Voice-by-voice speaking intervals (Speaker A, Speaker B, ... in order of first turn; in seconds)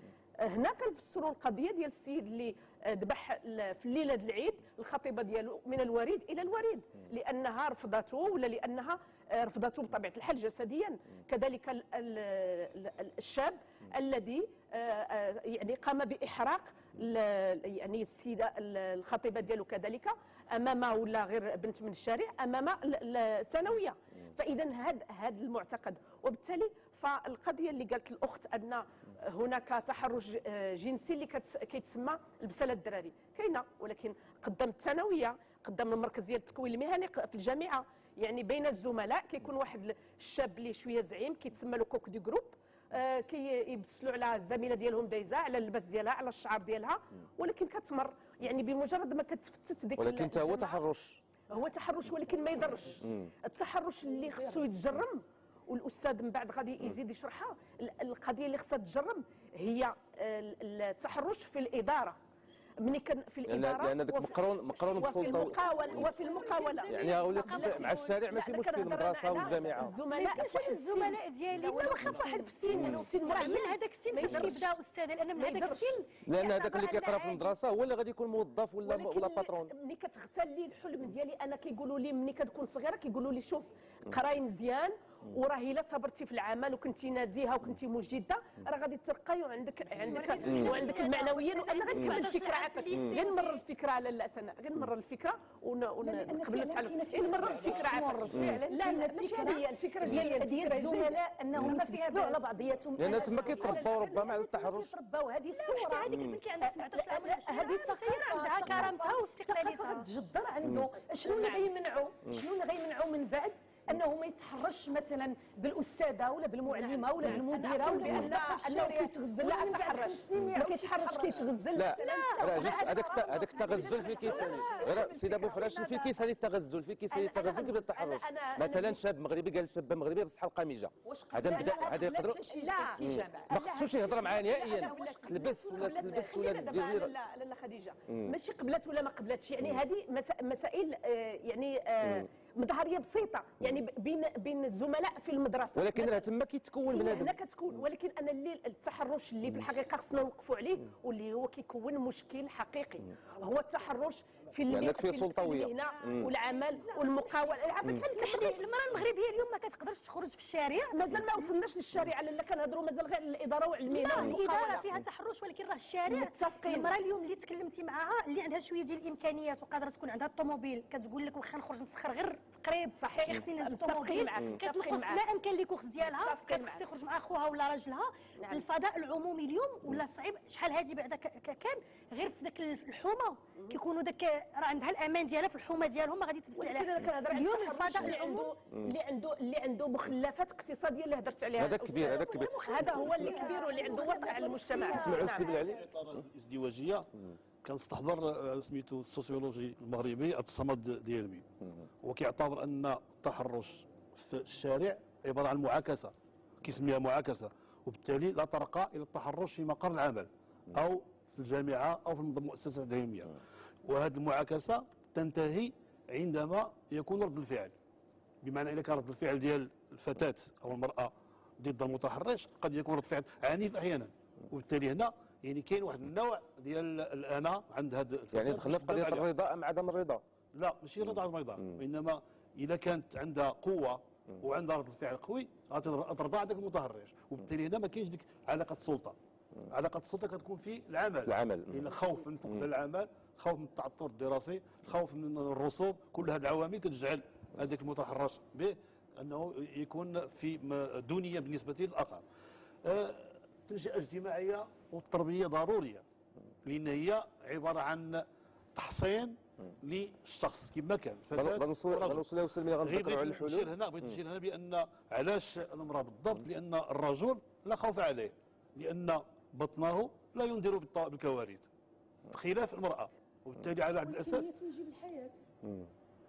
Speaker A: 0.4-50.8, 51.5-62.2, 62.8-71.1, 71.7-74.8, 75.3-76.0, 78.8-101.2, 103.0-104.4, 111.2-111.7, 116.7-126.2, 127.1-129.0, 131.4-133.0, 133.5-146.3, 146.9-158.7, 160.9-164.9, 166.1-166.9, 172.9-175.2, 176.0-176.8, 186.5-195.7
Speaker B: 50.0-51.2, 53.0-53.3, 63.5-66.1, 66.9-70.0, 76.2-79.7, 90.5-90.9, 98.3-98.6, 103.0-104.9, 106.1-106.4, 110.6-110.9, 121.7-132.4, 133.0-137.1, 145.8-147.3, 154.7-156.3, 191.6-193.2, 194.7-195.8, 228.3-230.2, 241.2-241.9, 261.3-263.7
Speaker C: 65.0-68.0, 70.1-77.5, 89.8-93.5, 97.4-97.8, 101.6-102.5, 105.5-110.0, 122.0-122.3, 156.8-157.2, 157.8-161.2, 163.8-188.5, 192.0-195.7
Speaker D: 65.4-65.8, 70.1-73.7, 93.2-93.4, 96.0-125.5, 131.1-136.6, 192.8-194.8, 274.0-275.4
Speaker E: 195.8-197.1, 197.6-201.4, 202.0-213.3, 213.8-217.7, 218.4-229.3, 230.5-239.2, 239.7-252.2, 252.8-256.0, 256.6-258.2, 258.7-262.2, 262.8-271.7, 272.3-274.5